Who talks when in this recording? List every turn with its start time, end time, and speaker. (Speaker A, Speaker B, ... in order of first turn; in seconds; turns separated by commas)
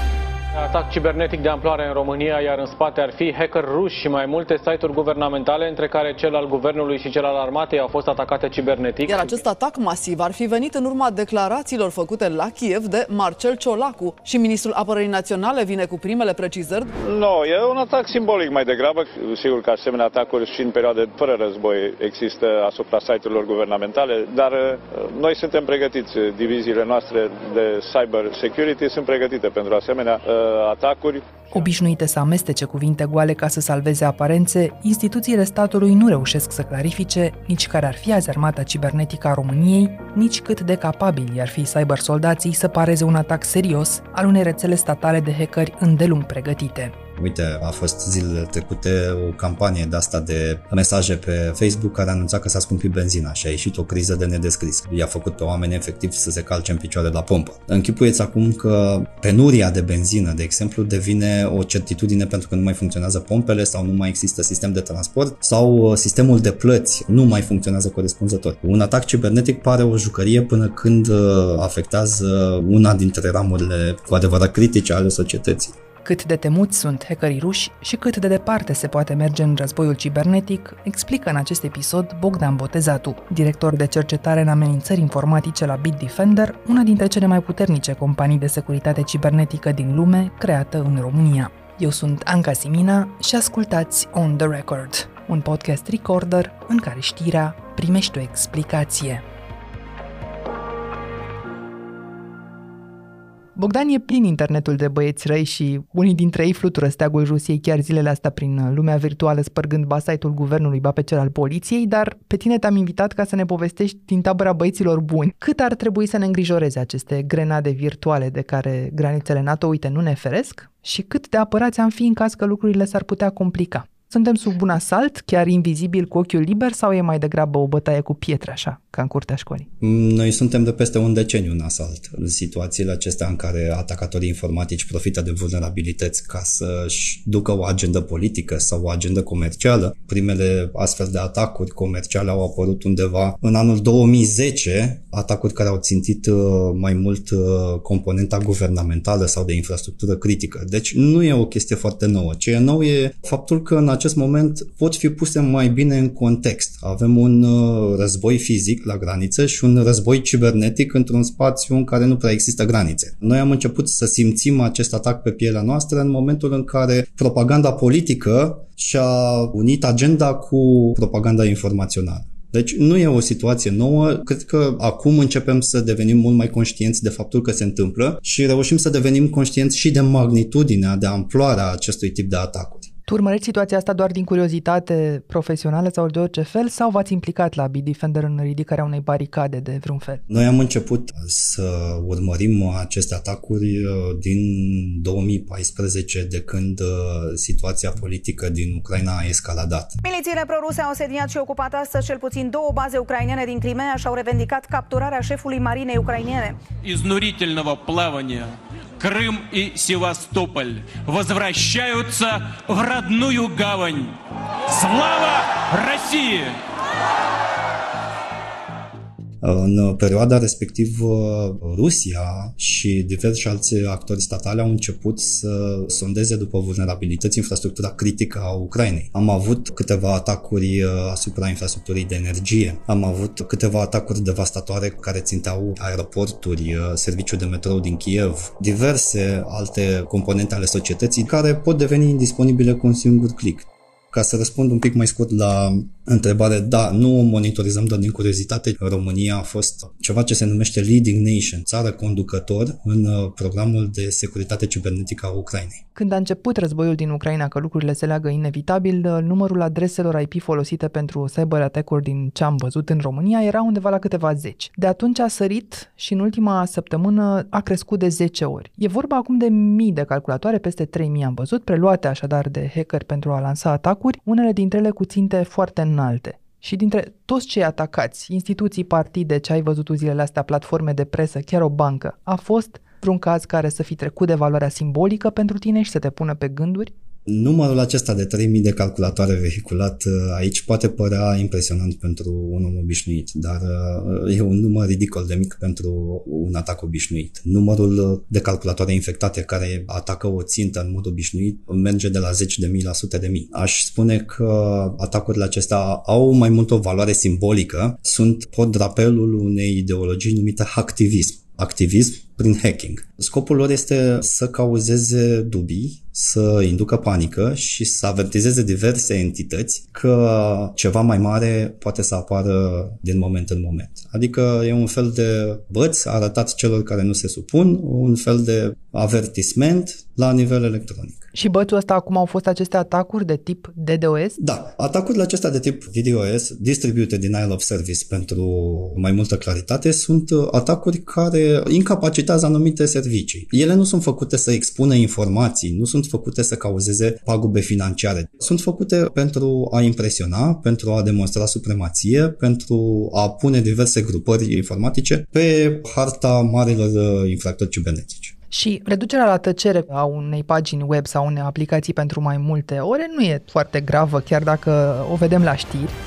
Speaker A: 0.5-9.3, Speaker B: 9.1-16.9, Speaker C: 17.0-31.3, Speaker D: 31.5-46.9, Speaker E: 47.2-75.8, Speaker D: 76.0-99.2, Speaker D: 103.6-129.7, Speaker E: 129.8-182.9, Speaker D: 183.1-190.2, Speaker E: 190.3-200.0, Speaker F: 200.0-206.6, Speaker G: 206.8-214.2, Speaker G: 214.7-216.6, Speaker E: 219.4-255.8, Speaker D: 255.9-286.9, Speaker E: 287.3-331.3, Speaker D: 331.3-334.4, Speaker E: 334.4-358.4, Speaker D: 358.5-365.9